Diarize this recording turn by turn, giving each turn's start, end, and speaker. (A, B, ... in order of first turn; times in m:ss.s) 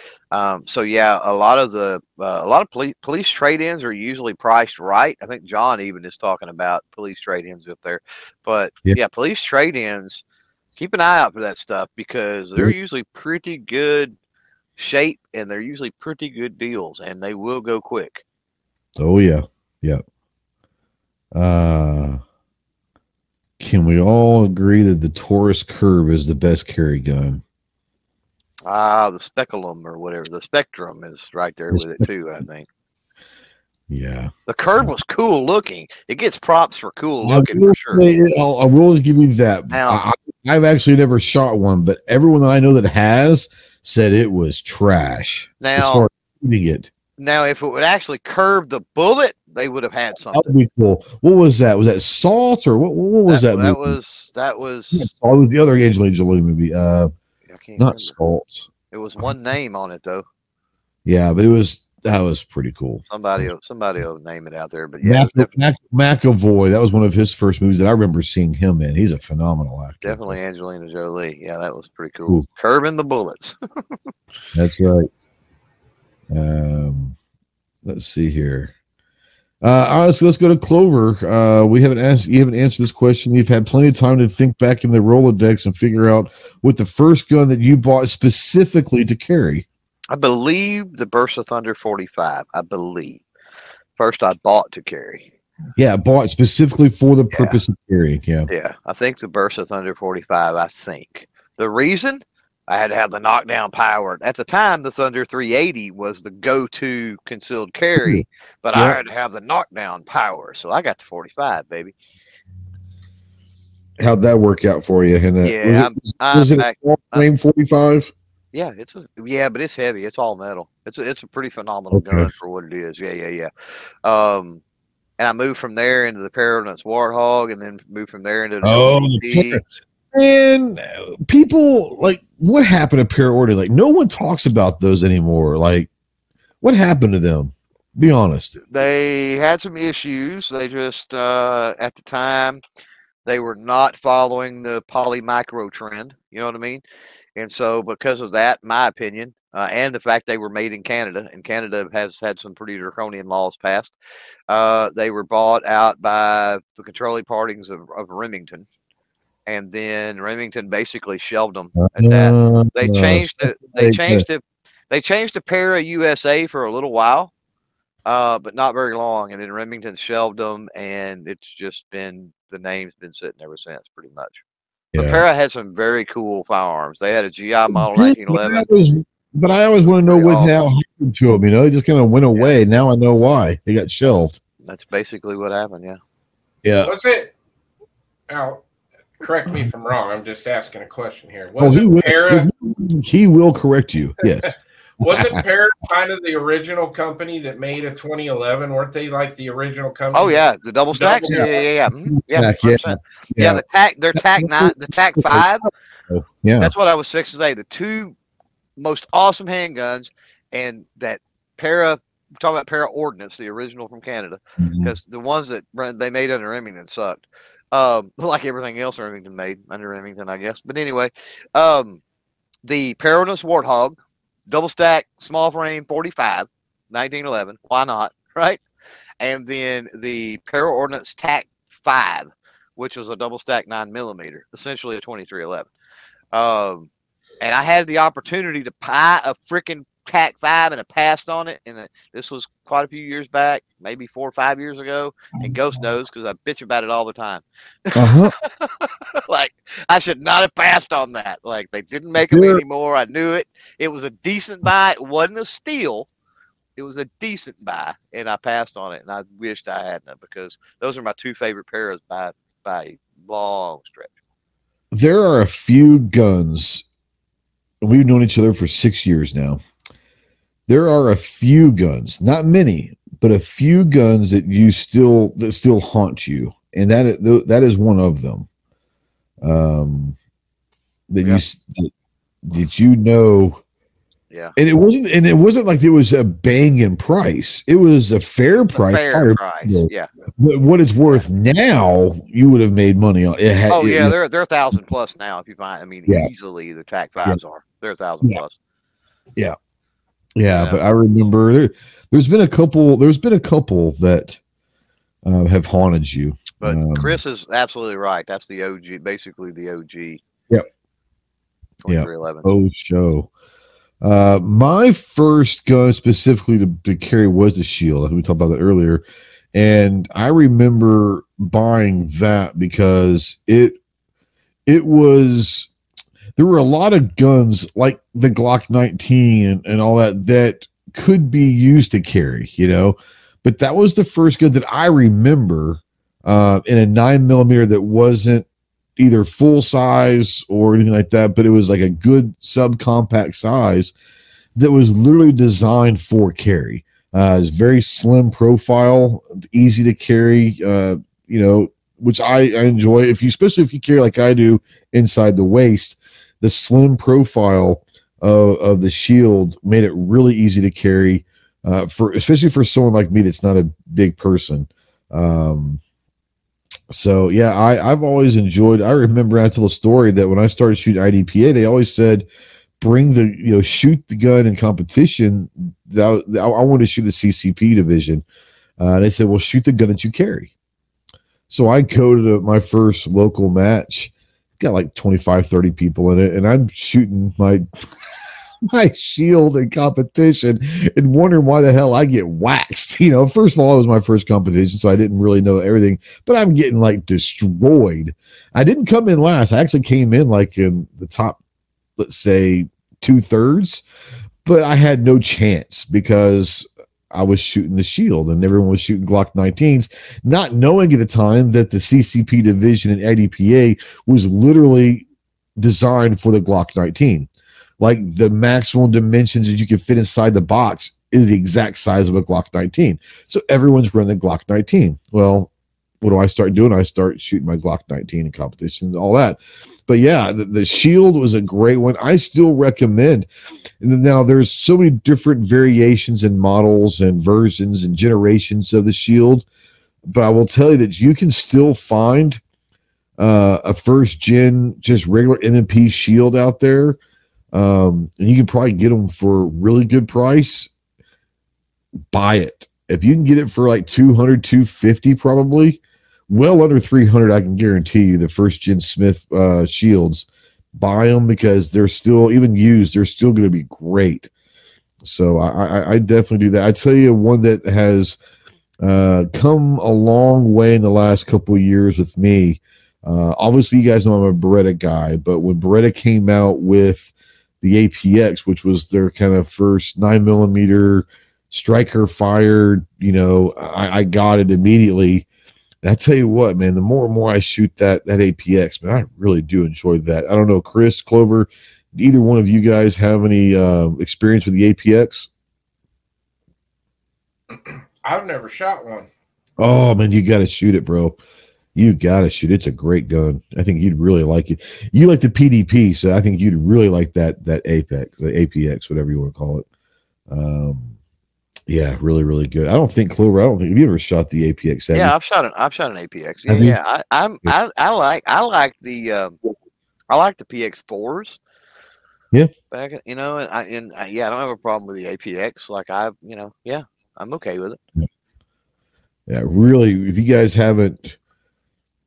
0:00.3-0:10.2 A
0:10.8-0:14.2 A
0:14.8-0:18.2 A
0:19.0-0:20.0 B
0:21.4-0:22.2 B
0:23.6-0:27.4 B
0:28.7-0:32.7 A
0:31.7-0:32.0 B
0:33.9-0:34.8 B
0:34.5-0:38.1 A
0:37.2-0:46.9 B
0:39.7-0:40.0 A
0:45.6-0:46.1 A
0:47.2-0:50.6 A
0:50.3-0:54.0 B
0:53.3-0:55.1 A
0:54.9-0:57.1 B
0:57.5-0:58.2 A
0:57.8-0:58.7 B
0:58.9-1:00.3 A
1:01.1-1:03.5 B
1:03.1-1:05.6 A
1:05.0-1:10.4 B
1:10.0-1:14.0 A
1:14.6-1:15.1 B
1:16.3-1:17.2 B
1:17.8-1:18.7 B
1:19.6-1:29.6 B
1:30.1-1:33.2 A
1:34.0-1:35.3 A
1:35.8-1:38.5 B
1:37.3-1:37.6 A
1:38.5-1:52.0 A
1:48.0-1:49.0 B
1:54.0-1:58.1 B
1:55.4-1:57.3 A
1:58.5-2:03.5 A
2:01.9-2:02.3 B
2:04.0-2:04.6 A
2:05.2-2:09.6 A
2:08.6-2:09.6 B
2:10.1-2:15.9 B
2:16.6-2:18.6 B
2:18.6-2:22.6 A
2:23.2-2:26.8 A
2:27.4-2:33.9 A
2:34.5-2:38.7 A
2:39.5-2:47.3 A
2:41.8-2:44.2 B
2:48.1-2:54.4 A
2:54.9-2:55.2 B
2:55.0-2:58.7 A
2:57.7-3:04.4 B
3:00.1-3:00.6 A
3:02.3-3:02.6 A
3:04.6-3:06.0 A
3:06.6-3:06.9 B
3:06.8-3:07.3 C
3:08.3-3:08.6 C
3:09.2-3:12.5 C
3:11.6-3:15.4 B
3:15.0-3:20.4 C
3:20.1-3:25.7 A
3:21.0-3:21.5 C
3:21.2-3:21.5 B
3:22.1-3:23.6 B
3:24.2-3:26.7 B
3:26.6-3:28.2 A
3:28.8-3:42.0 A
3:34.6-3:34.9 B
3:42.6-3:44.0 A
3:44.5-3:48.6 A
3:49.2-3:55.7 A
3:56.3-3:56.9 A
3:57.4-4:16.1 A
4:08.0-4:08.3 B
4:12.2-4:12.6 B
4:16.8-4:24.1 A
4:24.9-4:26.8 B
4:27.8-4:29.6 B
4:30.7-4:38.5 B
4:39.4-4:40.2 B
4:41.1-4:41.9 B
4:42.4-4:43.6 B
4:44.6-4:54.2 B
4:48.7-4:50.1 A
4:53.7-4:58.6 A
5:00.4-5:04.4 B
5:00.5-5:00.8 A
5:05.2-5:07.2 B
5:06.6-5:10.2 A
5:11.8-5:12.5 A
5:11.9-5:13.3 B
5:14.0-5:23.8 B
5:24.7-5:25.7 B
5:26.4-5:38.5 B
5:39.0-5:43.9 B
5:44.6-6:05.8 B
6:06.9-6:12.3 B
6:12.8-6:18.2 B
6:18.8-6:20.5 B
6:21.5-6:27.6 B
6:28.6-6:41.4 B
6:42.0-6:43.8 B
6:44.4-6:55.1 B
6:55.6-6:57.3 B
6:57.8-7:05.5 B
7:06.0-7:13.3 B
7:13.8-7:19.5 B
7:20.1-7:22.4 B
7:23.2-7:27.0 B
7:27.5-7:30.7 B
7:32.1-7:44.3 B
7:45.0-7:48.2 B
7:48.8-8:05.3 B
8:05.8-8:15.3 B
8:18.0-8:19.1 C
8:19.6-8:21.2 B
8:21.8-8:29.6 B
8:30.3-8:30.9 B
8:31.7-8:35.1 B
8:34.9-8:39.4 A
8:36.5-8:36.8 B
8:40.1-8:41.4 A
8:42.7-8:47.8 A
8:49.3-8:51.2 B